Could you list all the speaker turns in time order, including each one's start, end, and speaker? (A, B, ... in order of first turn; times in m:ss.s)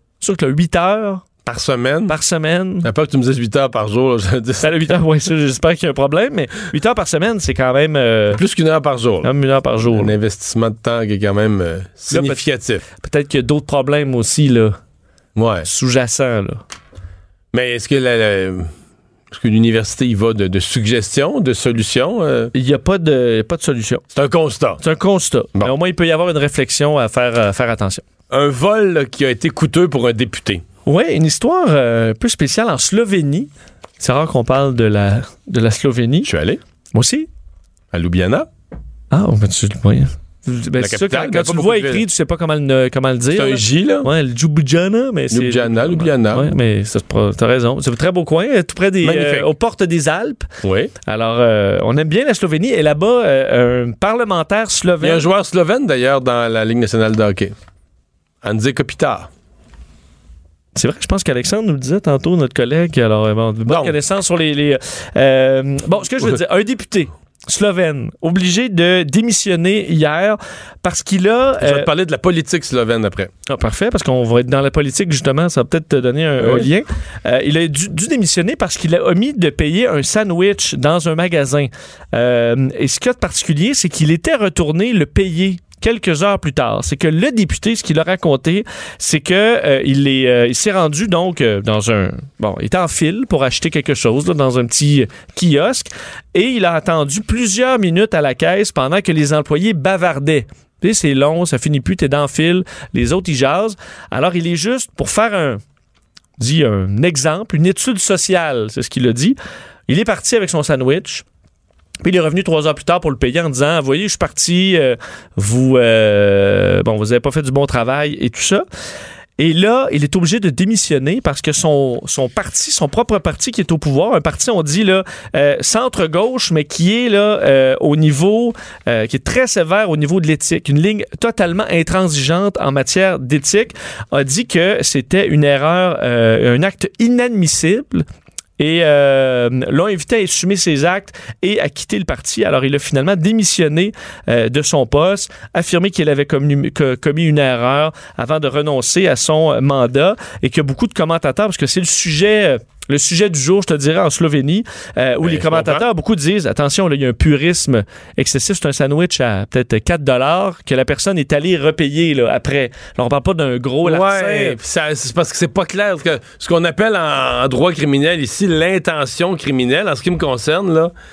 0:00.2-0:01.2 A
0:01.4-0:02.2 B
0:02.1-0:02.9 A
0:02.8-0:05.0 B
0:04.6-0:08.4 A
0:08.4-0:09.3 B
0:09.2-0:10.1 A
0:09.8-0:12.8 B
0:12.1-0:12.4 A
0:13.0-0:14.8 A
0:15.4-0:15.6 B
0:15.6-0:16.6 A
0:17.5-0:18.7 B
0:19.3-0:22.5 B
0:22.5-0:24.0 A
0:24.1-0:24.8 B
0:24.8-0:28.0 A
0:28.3-0:30.6 B
0:30.8-0:36.3 A
0:36.2-0:36.6 B
0:36.9-0:37.3 A
0:37.9-0:38.5 B
0:39.1-0:50.5 A
0:40.8-0:42.0 B
0:43.4-0:44.1 B
0:45.3-0:46.5 B
0:49.0-0:49.5 B
0:50.6-0:50.9 B
0:51.0-0:55.2 A
0:55.0-0:57.5 B
0:58.4-0:59.3 B
1:00.7-1:11.9 A
1:03.7-1:04.0 B
1:11.6-1:13.3 B
1:13.5-1:45.6 A
1:16.4-1:16.7 B
1:46.4-1:49.4 A
1:49.9-1:51.2 A
1:52.0-1:58.6 A
1:59.4-2:18.0 A
2:18.6-2:44.6 A
2:35.2-2:35.8 B
2:43.8-2:50.9 B